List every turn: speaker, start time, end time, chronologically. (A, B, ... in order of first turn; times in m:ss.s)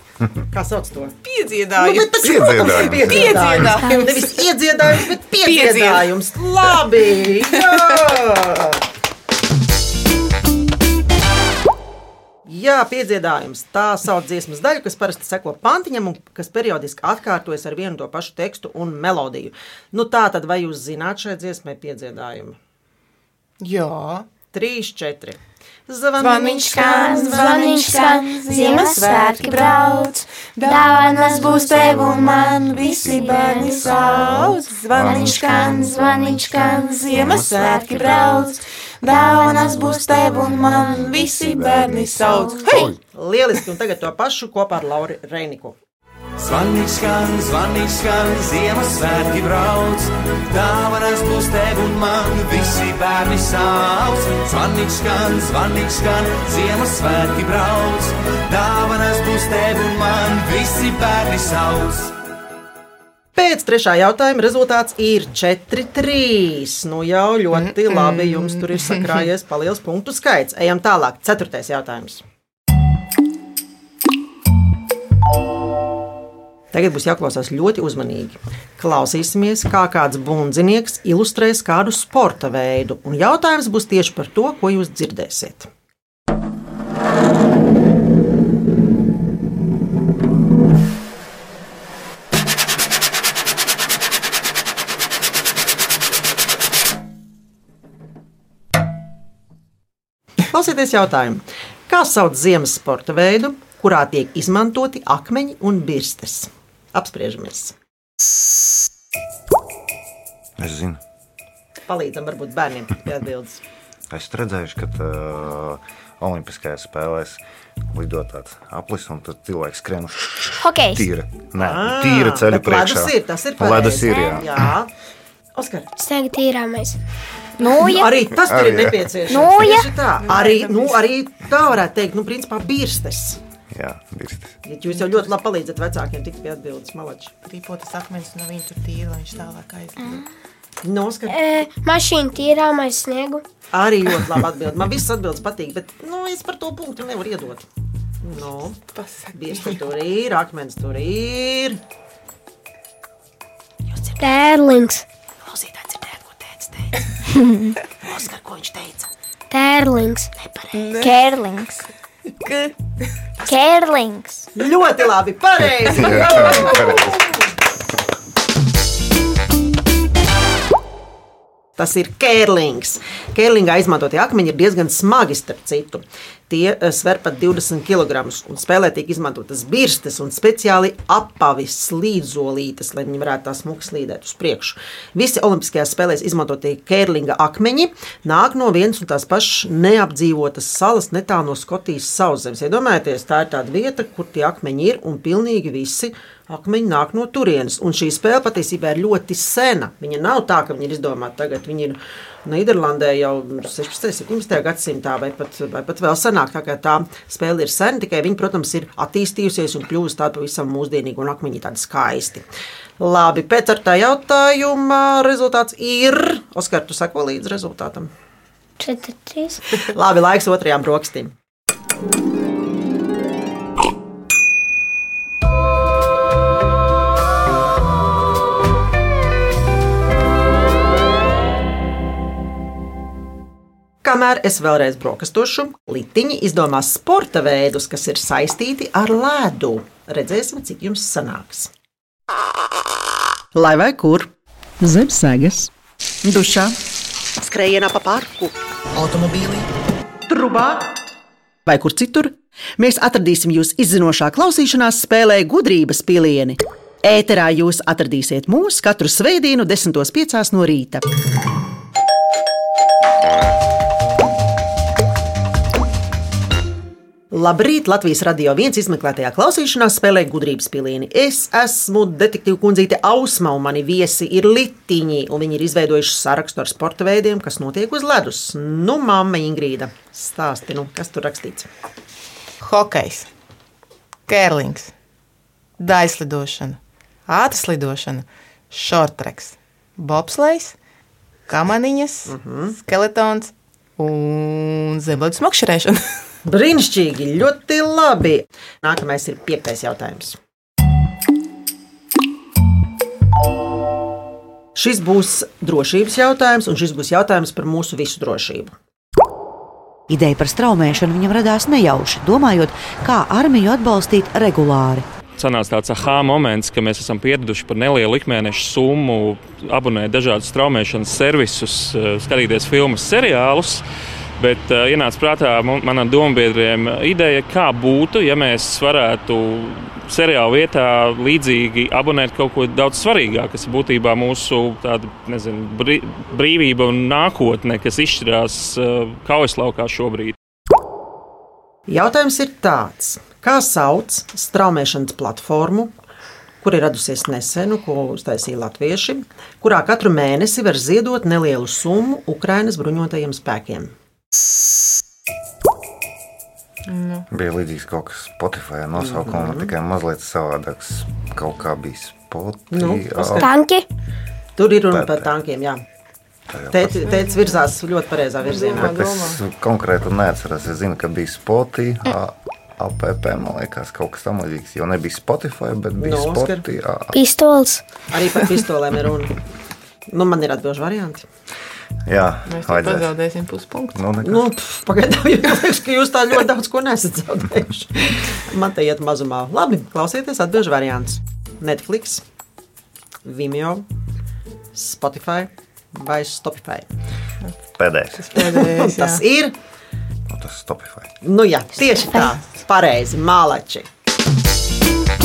0:00.5-0:01.1 A
0:01.2-0:04.5 B
0:01.8-0:08.8 A
0:02.2-0:03.8 C
0:05.3-0:06.1 B
0:07.5-0:08.0 B
0:12.5-0:22.6 A
0:23.6-0:24.2 B
0:24.5-0:27.8 A
0:26.2-0:43.0 B
0:26.8-0:29.8 D
0:28.6-0:29.4 E
0:30.7-0:34.2 D
0:32.8-0:37.8 C
0:35.6-0:36.0 D
0:40.7-0:43.0 C
0:43.1-0:45.8 A
0:46.4-1:02.1 F
1:03.4-1:12.2 A
1:07.5-1:09.3 B
1:16.7-1:25.7 A
1:40.5-1:47.8 A
1:50.6-1:51.0 C
1:51.9-1:53.6 A
1:54.1-2:04.7 C
2:00.6-2:01.0 E
2:01.6-2:04.9 A
2:03.9-2:04.4 E
2:05.5-2:05.9 A
2:06.0-2:07.0 D
2:07.6-2:08.2 E
2:07.8-2:13.4 A
2:08.4-2:09.0 C
2:09.3-2:09.9 E
2:10.2-2:11.0 B
2:13.7-2:14.6 C
2:14.6-2:17.3 A
2:17.4-2:20.2 B
2:20.8-2:21.6 A
2:21.3-2:23.4 D
2:23.7-2:27.7 A
2:28.2-2:28.8 A
2:28.9-2:29.8 B
2:29.3-2:31.8 A
2:33.9-2:34.2 A
2:34.2-2:35.0 D
2:35.4-2:37.2 A
2:37.4-2:37.7 E
2:38.0-2:39.1 A
2:39.5-2:40.3 D
2:40.4-2:40.9 A
2:40.7-2:41.2 B
2:41.0-2:41.8 E
2:42.4-2:42.7 B
2:43.5-2:44.5 E
2:44.6-2:46.9 A
2:45.6-2:47.2 C
2:46.1-2:47.2 B
2:51.8-3:32.4 A
3:33.0-3:38.1 A
3:38.8-3:39.6 D
3:39.8-3:41.3 A
3:54.0-4:01.7 A
4:03.5-4:04.3 A
4:04.8-4:05.7 A
4:06.2-4:06.8 A
4:07.4-4:09.7 A
4:10.3-4:10.9 A
4:11.6-4:21.0 A
4:27.3-4:41.7 A
4:42.6-4:43.3 B
4:44.3-4:44.9 B
4:45.8-4:50.8 B
4:51.5-4:56.2 B
4:52.2-4:52.8 A
4:56.4-5:00.4 A
5:04.8-5:08.7 A
5:10.1-5:15.0 G
5:15.4-5:23.8 H
5:24.4-5:40.4 H
5:41.9-5:45.9 A
5:46.6-5:53.9 A
5:56.9-5:57.2 B
5:57.3-6:03.5 C
5:59.0-5:59.7 A
6:02.7-6:03.5 A
6:03.4-6:03.8 D
6:04.6-6:05.8 A
6:04.9-6:05.3 C
6:06.5-6:07.2 C
6:06.7-6:09.0 A
6:08.4-6:09.4 B
6:08.7-6:17.2 C
6:16.0-6:16.6 A
6:17.1-6:17.8 D
6:18.1-6:19.3 A
6:20.1-6:21.2 A
6:22.0-6:23.2 C
6:22.5-6:24.0 B
6:24.0-6:24.5 C
6:24.2-6:32.2 A
6:33.2-6:33.9 A
6:34.7-6:36.9 A
6:37.8-6:38.5 C
6:38.2-6:39.2 B
6:38.4-6:39.5 A
6:40.3-6:41.1 C
6:41.2-6:43.9 A